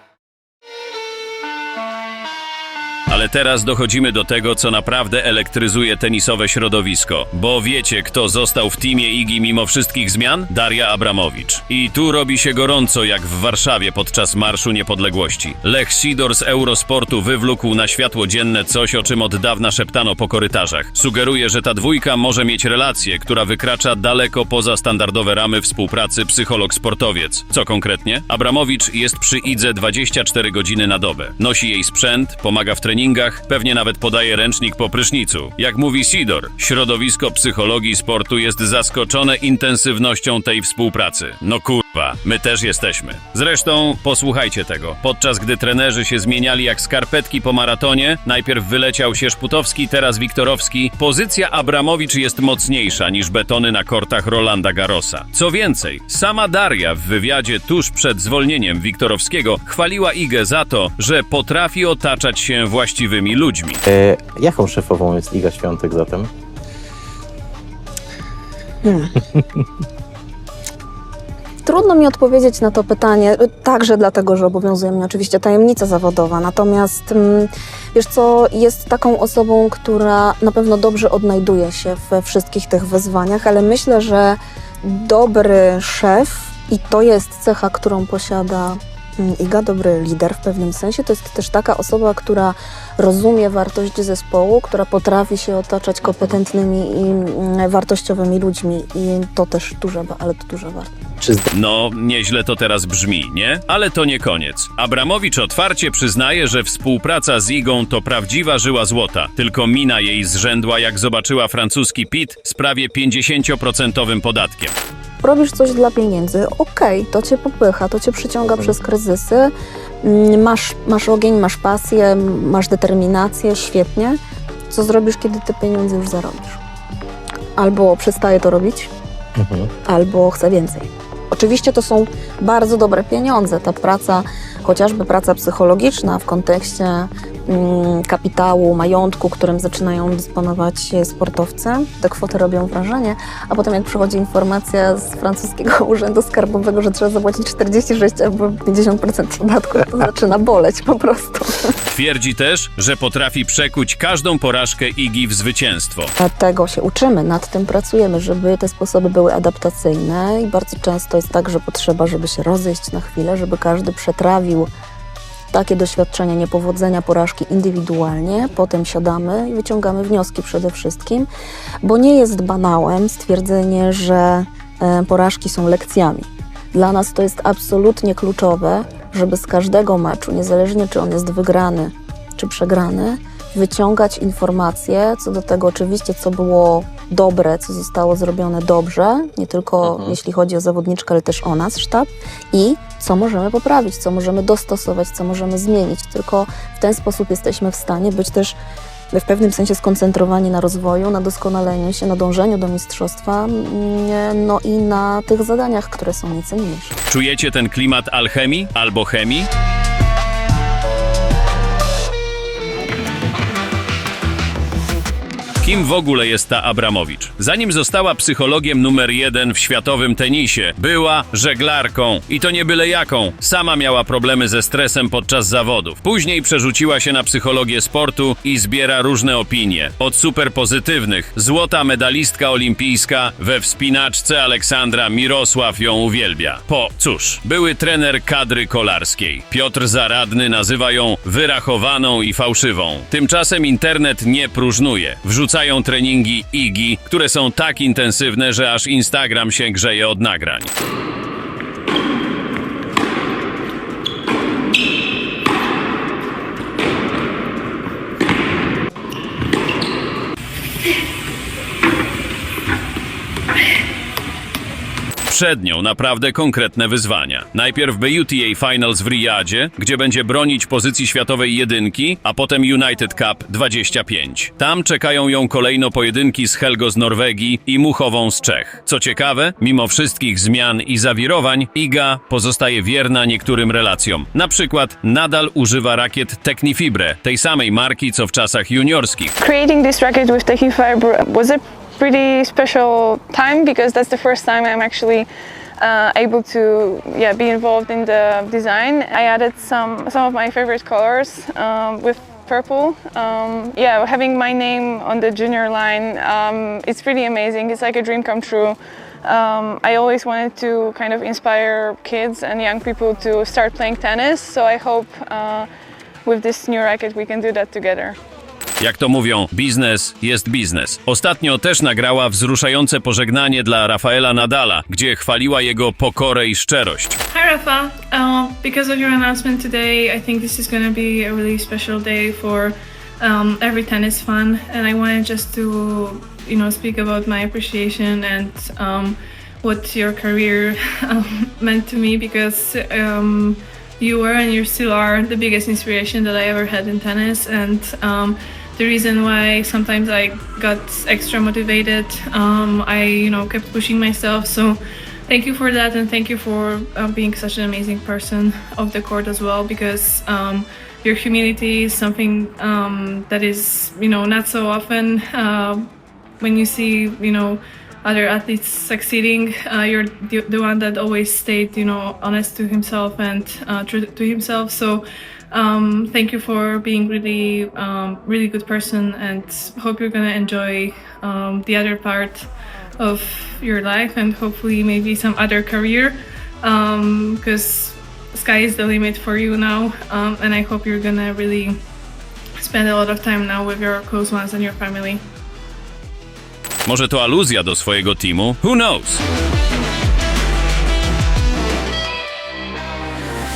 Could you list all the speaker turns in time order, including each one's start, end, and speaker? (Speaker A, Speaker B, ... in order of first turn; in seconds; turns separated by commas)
Speaker A: 3.1-63.8, Speaker B: 63.9-66.3, Speaker C: 68.8-69.1, Speaker C: 71.7-101.0, Speaker B: 96.1-96.3, Speaker A: 101.5-114.8, Speaker C: 115.2-119.5, Speaker B: 118.5-118.8, Speaker C: 120.0-124.2, Speaker C: 124.7-126.6, Speaker C: 127.6-128.9, Speaker B: 129.4-129.7, Speaker C: 129.9-151.5, Speaker A: 151.9-156.1, Speaker C: 156.2-164.7, Speaker C: 165.5-171.3, Speaker C: 171.8-198.6, Speaker B: 189.8-190.2, Speaker C: 199.1-206.9, Speaker A: 207.1-209.5, Speaker A: 215.6-250.7, Speaker A: 265.3-289.3, Speaker D: 289.4-315.7, Speaker D: 316.2-318.2, Speaker A: 318.8-327.2, Speaker E: 327.3-365.9, Speaker E: 366.4-382.5, Speaker E: 383.0-391.8, Speaker E: 392.6-395.2, Speaker A: 396.9-399.2